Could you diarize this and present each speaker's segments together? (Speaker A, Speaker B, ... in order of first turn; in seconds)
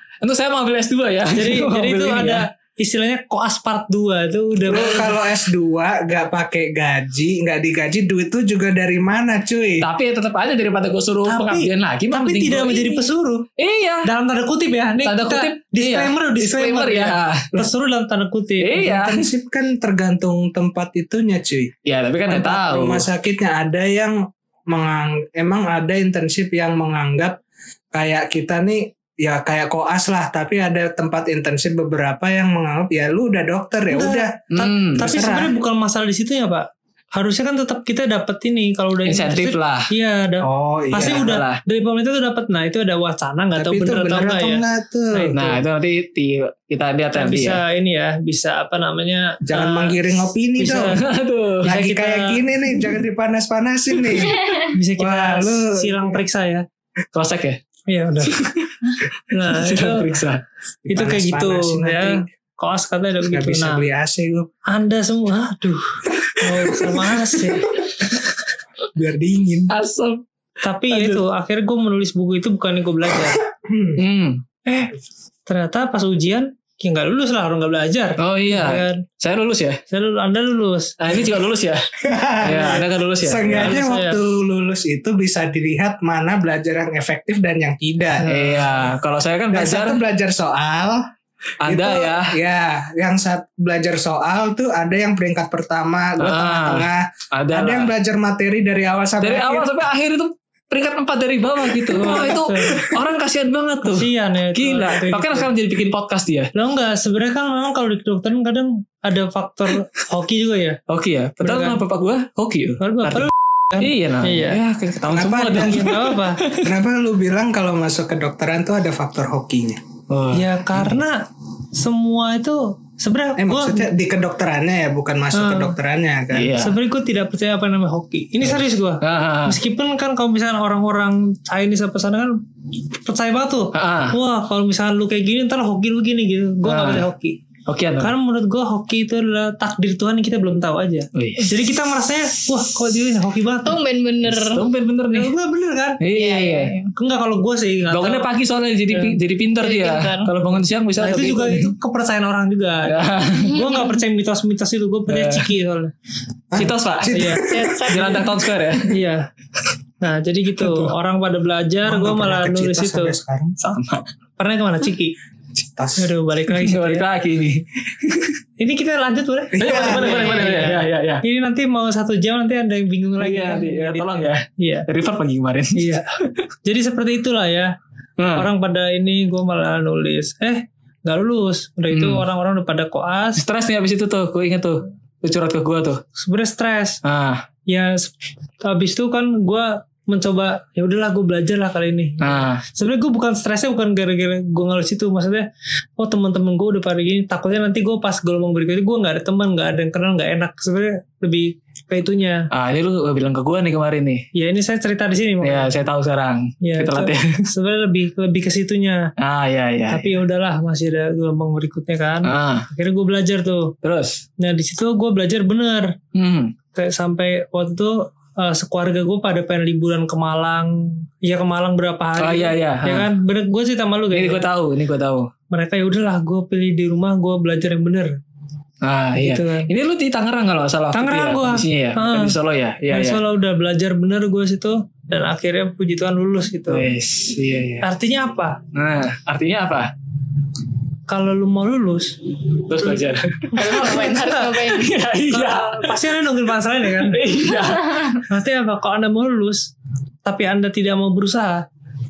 Speaker A: 0.2-2.4, 9.8-13.0, 13.6-14.1, 15.1-17.5, 18.6-19.3, 21.9-23.1, 34.5-35.1, 39.1-39.9, 40.9-41.6, 45.4-47.6, 51.0-51.7, 57.1-57.6, 58.3-60.4, 66.6-67.1, 67.8-68.1, 69.7-70.2, 70.9-71.2, 74.0-74.4, 78.2-79.8, 81.0-81.8, 82.4-83.8, 88.3-90.0, 91.6-92.3, 96.2-97.9, 99.2-106.5, 110.9-116.7, 120.1-120.9, 126.3-126.8, 129.0-129.6, 133.7-134.2, 136.6-137.1, 137.7-138.1, 141.2-141.5, 144.2-145.3, 146.0-146.8, 147.9-151.7, 152.9-153.6, 155.1-155.5, 156.6-158.9, 160.6-160.9, 163.6-164.1, 166.5-168.4, 169.6-171.2, 173.2-176.4, 178.2-178.5, 181.9-182.2, 183.4-186.0, 187.0-187.4, 192.2-192.6, 202.5-204.2, 205.4-207.4, 209.2-210.1, 212.2-212.7, 213.8-214.2, 216.2-216.5, 222.2-223.1, 224.1-225.3, 228.8-233.2, 236.7-237.9, 238.7-239.9, 242.7-244.1, 244.7-246.0, 247.0-248.2
Speaker B: 1.4-5.1, 11.3-13.4, 14.1-18.9, 33.9-44.6, 45.1-45.6, 47.1-50.0, 50.6-51.0, 51.6-52.4, 54.7-56.6, 57.9-58.5, 59.3-60.2, 60.9-63.9, 64.7-67.7, 70.6-73.4, 74.7-74.9, 75.5-79.0, 79.9-80.9, 83.6-84.2, 88.2-88.7, 101.9-102.9, 103.8-105.5, 106.5-110.8, 111.4-111.8, 112.8-114.6, 115.6-116.4, 120.3-123.9, 125.3-125.8, 126.6-132.4, 133.1-137.4, 138.0-143.8, 145.1-146.0, 146.9-148.3, 148.9-149.2, 151.0-155.9, 157.1-157.4, 158.9-159.3, 160.0-163.1, 164.4-165.2, 166.0-167.0, 168.6-174.9, 175.8-176.1, 176.7-177.7, 178.4-183.4, 186.2-187.0, 187.7-195.5, 196.0-202.5, 204.3-205.7, 206.6-209.1, 209.9-213.8, 214.4-215.9, 216.8-224.4, 225.5-228.1, 229.2-229.7, 230.9-232.3, 232.9-236.9, 237.8-238.6, 241.1-242.2, 243.5-244.6, 245.3-247.2, 248.3-249.7, 250.2-251.7
Speaker C: 4.7-9.8, 18.8-21.7, 22.3-24.2, 24.7-27.4, 27.9-34.4, 35.0-35.5, 40.4-41.3, 43.6-45.4, 49.5-51.0, 51.6-54.5, 55.0-56.2, 60.9-62.3, 63.3-64.5, 69.0-69.7, 73.5-74.0, 82.0-88.3, 89.5-91.0, 91.7-99.7, 115.1-116.0, 116.6-119.8, 123.4-126.5, 156.5-158.1, 161.8-163.6, 165.6-166.1, 169.5-170.3
Speaker D: 143.6-144.7, 146.1-146.9, 149.6-150.3, 153.4-154.0, 157.4-158.3, 243.5-245.6